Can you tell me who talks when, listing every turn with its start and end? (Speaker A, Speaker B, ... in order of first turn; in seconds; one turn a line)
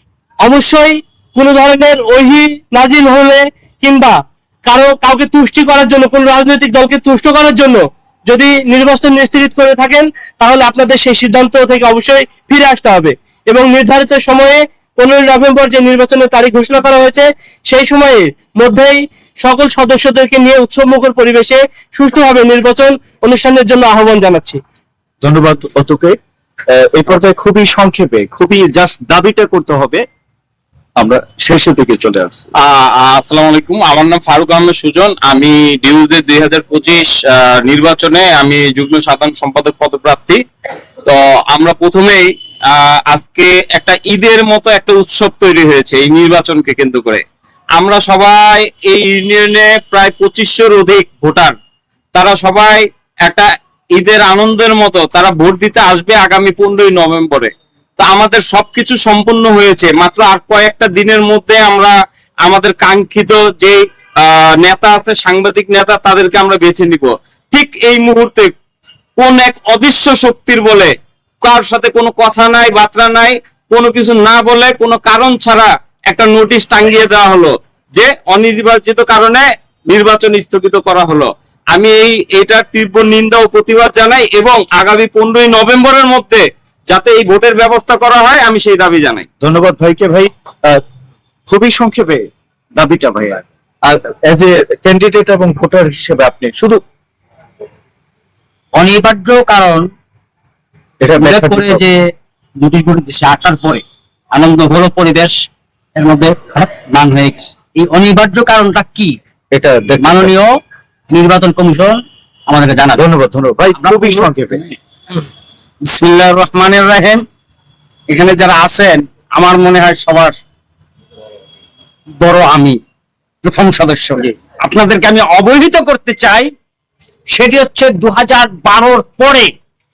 Speaker A: 0.4-24.6
Speaker B: 25.2-26.2
Speaker B: 26.9-30.0
Speaker B: 31.0-32.5
Speaker C: 32.6-40.4
Speaker C: 41.0-42.2
Speaker C: 42.8-47.2
Speaker C: 47.8-51.5
Speaker C: 52.1-61.9
Speaker C: 62.4-68.5
Speaker C: 69.2-89.3
Speaker B: 89.4-90.8
Speaker B: 91.5-96.8
Speaker D: 98.8-99.9
Speaker B: 101.0-101.8
Speaker D: 101.2-102.1
Speaker D: 102.6-105.4
Speaker D: 106.0-109.2
Speaker B: 109.5-110.3
Speaker D: 110.0-110.5
Speaker D: 111.1-113.0
Speaker B: 112.9-114.7
Speaker D: 113.8-114.3
Speaker D: 115.8-117.2
Speaker D: 118.1-120.4
Speaker D: 122.2-122.8
Speaker D: 123.4-126.5
Speaker D: 127.3-129.5